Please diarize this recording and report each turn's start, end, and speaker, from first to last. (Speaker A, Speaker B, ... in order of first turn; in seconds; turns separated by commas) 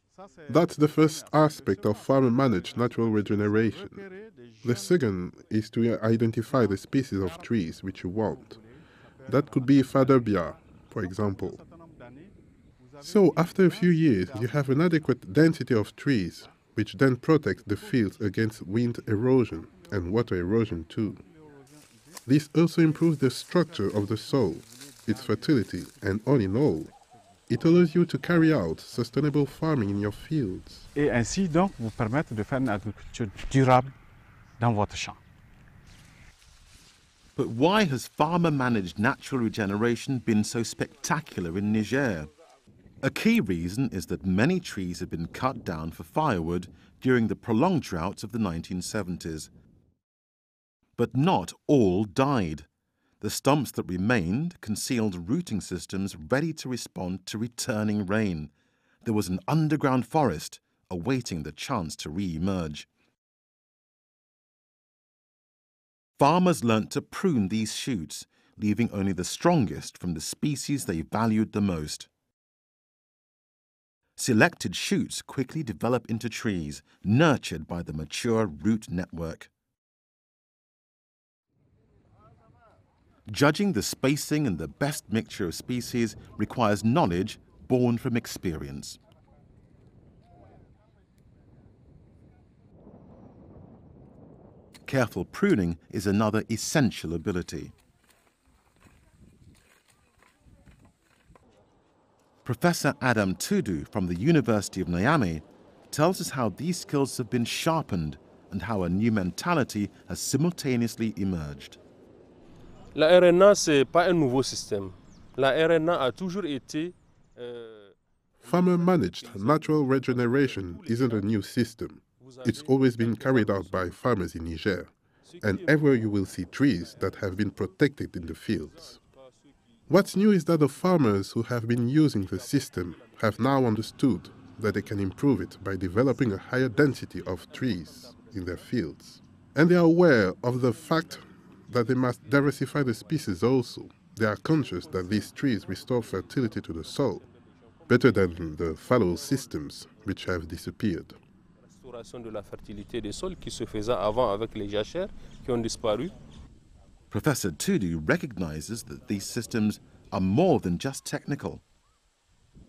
Speaker A: 0.5-4.0, Speaker A: 4.6-8.6, Speaker A: 9.3-11.6, Speaker A: 13.0-21.2, Speaker A: 22.2-26.9, Speaker A: 27.5-30.9, Speaker B: 30.9-33.9, Speaker B: 34.6-35.2, Speaker C: 37.4-42.3, Speaker C: 43.0-49.5, Speaker C: 51.0-52.7, Speaker C: 53.2-58.5, Speaker C: 59.0-62.9, Speaker C: 66.2-72.1, Speaker C: 74.2-79.5, Speaker C: 83.3-89.0, Speaker C: 94.9-97.7, Speaker C: 102.4-111.8, Speaker D: 112.9-121.2, Speaker A: 118.4-129.0, Speaker D: 122.2-124.0, Speaker D: 125.3-126.2, Speaker D: 126.8-127.5, Speaker D: 128.9-129.4, Speaker A: 129.9-147.2, Speaker D: 132.0-133.6, Speaker D: 137.1-138.5, Speaker D: 144.8-147.5, Speaker A: 147.9-151.2, Speaker D: 151.7-156.1, Speaker C: 157.1-161.6